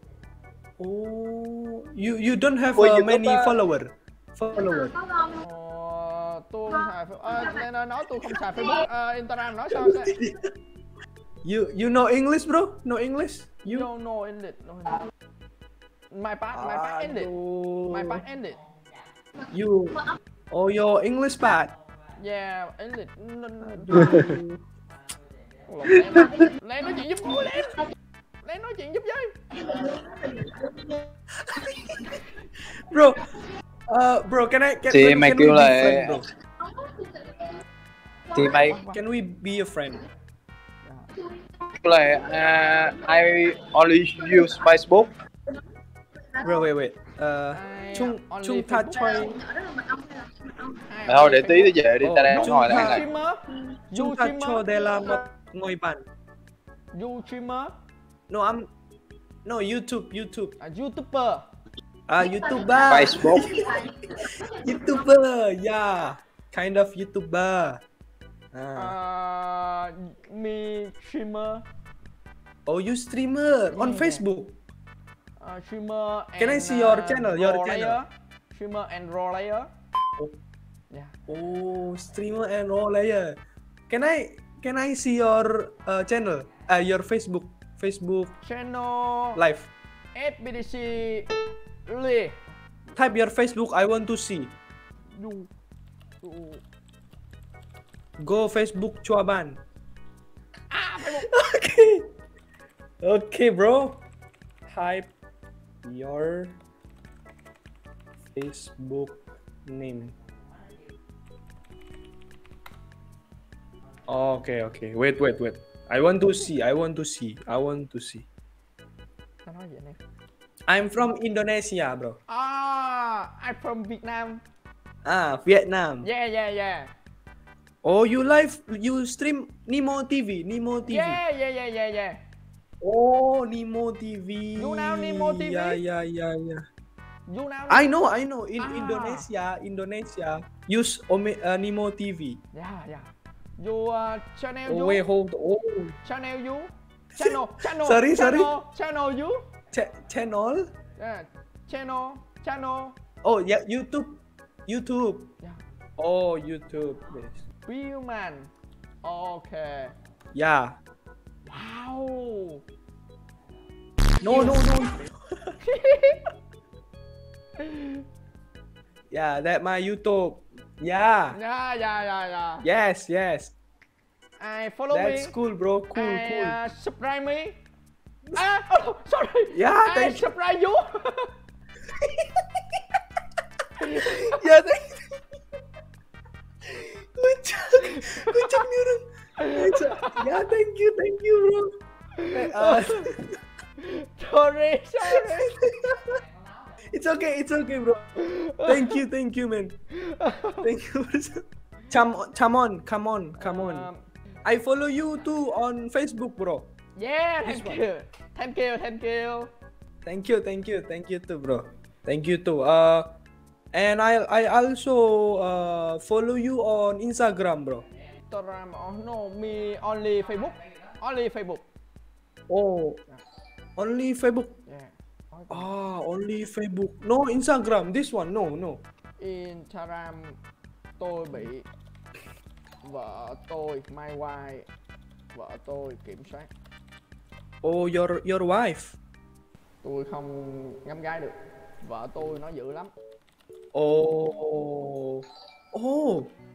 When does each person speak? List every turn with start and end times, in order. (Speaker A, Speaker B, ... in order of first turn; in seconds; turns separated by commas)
Speaker A: 0.8-5.0, Speaker B: 2.8-3.6, Speaker C: 5.4-10.1, Speaker A: 9.7-10.6, Speaker A: 11.4-13.9, Speaker C: 13.6-15.1, Speaker C: 16.1-17.3, Speaker A: 16.5-18.2, Speaker C: 17.9-18.6, Speaker A: 19.5-21.8, Speaker C: 22.2-24.2, Speaker A: 23.6-24.6, Speaker C: 25.6-27.8, Speaker A: 25.9-26.4, Speaker C: 28.4-29.3, Speaker A: 31.4-33.3, Speaker A: 33.9-36.2, Speaker B: 34.9-36.2, Speaker B: 38.3-38.8, Speaker C: 38.6-39.0, Speaker A: 38.7-40.1, Speaker C: 40.8-41.1, Speaker B: 41.8-45.1, Speaker A: 46.4-49.4, Speaker C: 47.5-49.3, Speaker C: 50.6-51.7, Speaker B: 51.1-53.1, Speaker A: 52.0-53.1, Speaker C: 52.3-55.2, Speaker A: 53.9-56.0, Speaker C: 56.9-57.7, Speaker A: 58.3-58.7, Speaker A: 59.4-60.6, Speaker C: 60.6-61.5, Speaker A: 62.1-67.8, Speaker B: 62.9-63.6, Speaker A: 68.5-69.0, Speaker C: 68.8-71.6, Speaker A: 72.7-74.6, Speaker C: 73.7-74.2, Speaker C: 75.4-79.7, Speaker A: 76.4-78.0, Speaker A: 81.3-83.4, Speaker A: 83.9-88.3, Speaker C: 88.4-89.4, Speaker A: 89.3-89.7, Speaker C: 90.1-91.3, Speaker C: 91.9-92.4, Speaker A: 92.9-94.5, Speaker C: 95.1-95.5, Speaker C: 96.2-96.6, Speaker A: 98.2-99.6, Speaker C: 100.7-101.3, Speaker A: 101.1-102.1, Speaker A: 103.0-104.0, Speaker A: 104.7-105.1, Speaker A: 105.8-106.6, Speaker A: 108.3-110.1, Speaker A: 114.1-118.3, Speaker C: 119.4-120.0, Speaker A: 120.7-122.2, Speaker C: 122.3-124.4, Speaker A: 125.0-126.1, Speaker C: 126.0-126.9, Speaker A: 127.8-131.2, Speaker C: 130.9-132.2, Speaker A: 132.8-136.7, Speaker C: 134.6-135.8, Speaker C: 137.3-137.9, Speaker A: 137.7-142.4, Speaker C: 138.6-139.3, Speaker C: 142.5-145.0, Speaker A: 144.7-146.0, Speaker C: 146.0-149.4, Speaker A: 147.1-148.6, Speaker A: 149.7-150.7, Speaker C: 151.0-153.0, Speaker A: 153.2-155.3, Speaker A: 156.0-157.4, Speaker C: 157.7-158.5, Speaker C: 159.0-159.9, Speaker A: 160.3-160.8, Speaker C: 161.4-162.6, Speaker C: 164.2-164.7, Speaker A: 164.2-165.5, Speaker C: 165.6-166.3, Speaker C: 167.6-168.0, Speaker A: 169.1-171.4, Speaker C: 171.3-172.7, Speaker A: 172.6-173.5, Speaker C: 174.4-175.3, Speaker A: 174.9-176.6, Speaker C: 175.9-177.6, Speaker C: 178.3-181.3, Speaker A: 179.5-180.3, Speaker C: 183.8-184.4, Speaker A: 183.8-185.0, Speaker A: 186.7-191.8, Speaker C: 187.8-188.6, Speaker C: 189.4-190.3, Speaker C: 192.2-193.1, Speaker A: 192.3-193.4, Speaker C: 193.8-195.6, Speaker A: 195.1-196.2, Speaker A: 196.8-199.8, Speaker C: 198.2-199.0, Speaker C: 199.9-200.7, Speaker A: 200.6-203.9, Speaker C: 203.4-204.1, Speaker A: 204.4-206.7, Speaker C: 207.0-209.5, Speaker A: 207.4-207.8, Speaker A: 210.0-213.1, Speaker A: 213.7-217.8, Speaker C: 218.3-221.6, Speaker A: 222.5-223.0, Speaker A: 223.8-224.6, Speaker C: 224.7-225.7, Speaker A: 225.5-228.8, Speaker C: 229.2-230.4, Speaker C: 231.0-231.7, Speaker C: 232.8-234.7, Speaker C: 235.3-236.5, Speaker A: 237.6-239.0, Speaker C: 239.8-242.9, Speaker A: 243.7-246.3